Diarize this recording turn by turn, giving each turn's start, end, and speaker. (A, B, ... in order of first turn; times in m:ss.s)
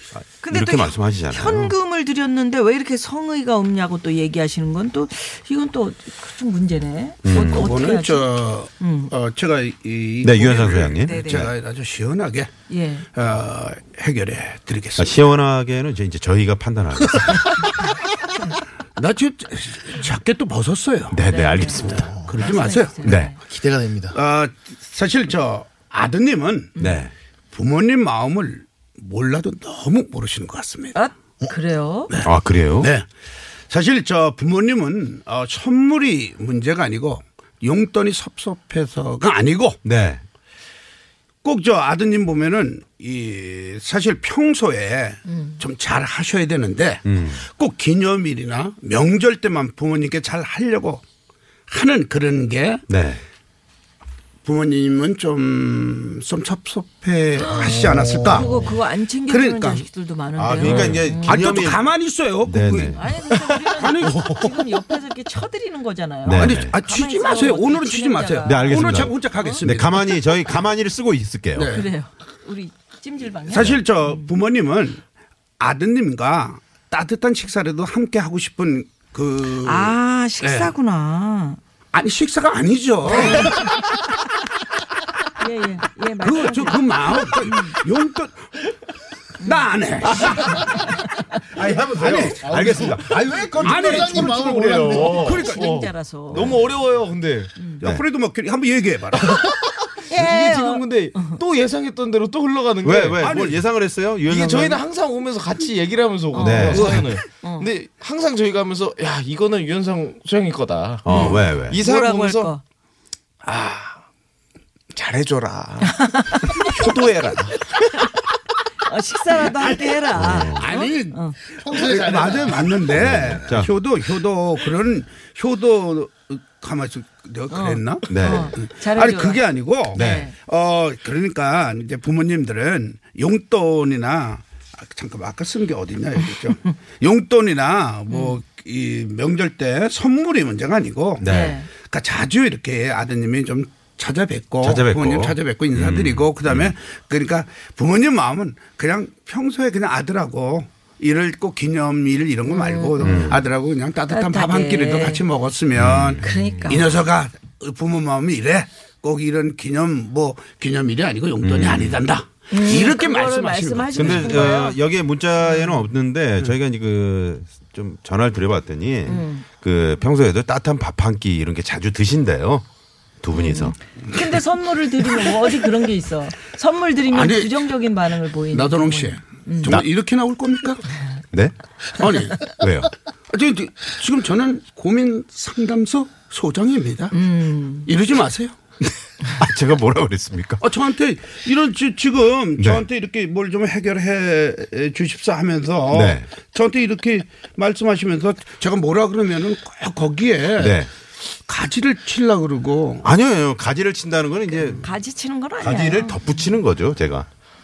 0:00.1-0:01.7 A
0:00.4-0:09.1 B
0:07.2-0:07.8 A
0:07.3-0:12.5 C
0:10.2-0:11.5 A
0:11.0-0:11.5 B
0:12.7-0:13.1 B
0:13.1-0:15.2 C
0:15.0-0:17.7 A
0:19.0-0:21.2 C
0:21.1-0:22.1 A
0:21.3-0:23.4 B
0:21.8-0:22.3 D
0:22.3-0:23.1 C
0:23.0-0:23.3 A
0:23.4-0:24.2 D
0:24.1-0:26.8 C
0:26.8-0:27.1 B
0:26.8-0:27.1 A
0:27.5-0:31.0 C
0:31.0-0:32.1 B
0:32.1-0:33.1 C
0:32.2-0:32.9 A
0:33.7-0:39.8 C
0:39.8-0:40.2 A
0:41.4-0:51.0 C
0:45.3-0:45.6 B
0:47.0-0:47.4 A
0:51.7-0:52.8 C
0:52.9-0:53.2 A
0:54.4-0:58.8 C
0:57.4-1:01.5 B
0:57.6-0:58.7 D
0:59.3-0:59.8 C
1:00.4-1:01.9 A
1:00.6-1:01.2 E
1:01.2-1:03.2 C
1:02.4-1:03.0 A
1:02.9-1:09.6 B
1:03.7-1:04.6 C
1:06.3-1:06.7 A
1:06.4-1:10.2 C
1:08.5-1:11.8 A
1:11.6-1:11.9 C
1:11.7-1:14.3 B
1:13.5-1:15.0 C
1:13.5-1:13.8 A
1:15.6-1:20.7 C
1:19.6-1:21.6 B
1:21.9-1:23.7 C
1:23.1-1:23.7 B
1:25.4-1:27.8 B
1:26.2-1:28.6 C
1:29.4-1:30.9 C
1:29.4-1:29.7 B
1:30.2-1:30.7 A
1:31.5-1:35.5 A
1:32.0-1:33.0 C
1:32.2-1:35.4 D
1:33.6-1:35.7 C
1:35.2-1:36.6 B
1:35.4-1:37.5 E
1:36.3-1:36.7 A
1:37.6-1:37.8 B
1:37.8-1:39.4 C
1:40.0-1:43.4 E
1:40.1-1:41.4 B
1:42.8-1:44.8 A
1:43.2-1:43.6 C
1:44.3-1:52.5 E
1:46.3-1:47.7 B
1:46.4-1:47.1 A
1:51.0-1:51.8 A
1:51.1-1:51.5 C
1:51.1-1:52.6 B
1:53.4-1:54.0 E
1:54.9-1:58.0 E
1:55.8-1:56.7 B
1:58.8-2:01.4 B
1:59.8-2:44.5 C
2:00.2-2:00.7 A
2:01.6-2:02.8 D
2:02.9-2:03.7 A
2:07.5-2:09.4 B
2:08.1-2:08.6 A
2:09.9-2:10.3 B
2:10.0-2:10.3 A
2:18.1-2:18.4 B
2:21.2-2:21.6 A
2:21.3-2:21.7 B
2:24.6-2:26.7 A
2:32.5-2:33.3 B
2:33.0-2:33.4 A
2:34.1-2:35.2 B
2:35.8-2:36.2 A
2:36.2-2:37.0 B
2:36.3-2:36.6 E
2:41.4-2:42.0 A
2:42.5-2:44.8 B
2:44.0-2:52.6 A
2:45.4-2:45.9 B
2:49.1-2:49.4 B
2:53.2-2:53.8 A
2:53.3-2:59.8 B
2:57.1-2:57.7 C
2:58.5-3:00.8 C
3:02.0-3:02.5 C
3:02.4-3:02.9 A
3:03.3-3:07.2 C
3:07.1-3:07.9 B
3:07.9-3:08.6 C
3:09.3-3:10.6 A
3:10.6-3:20.8 C
3:12.6-3:12.8 A
3:15.9-3:16.3 A
3:20.6-3:20.9 A
3:21.5-3:23.1 C
3:23.0-3:24.9 A
3:24.6-3:26.4 B
3:25.6-3:27.3 A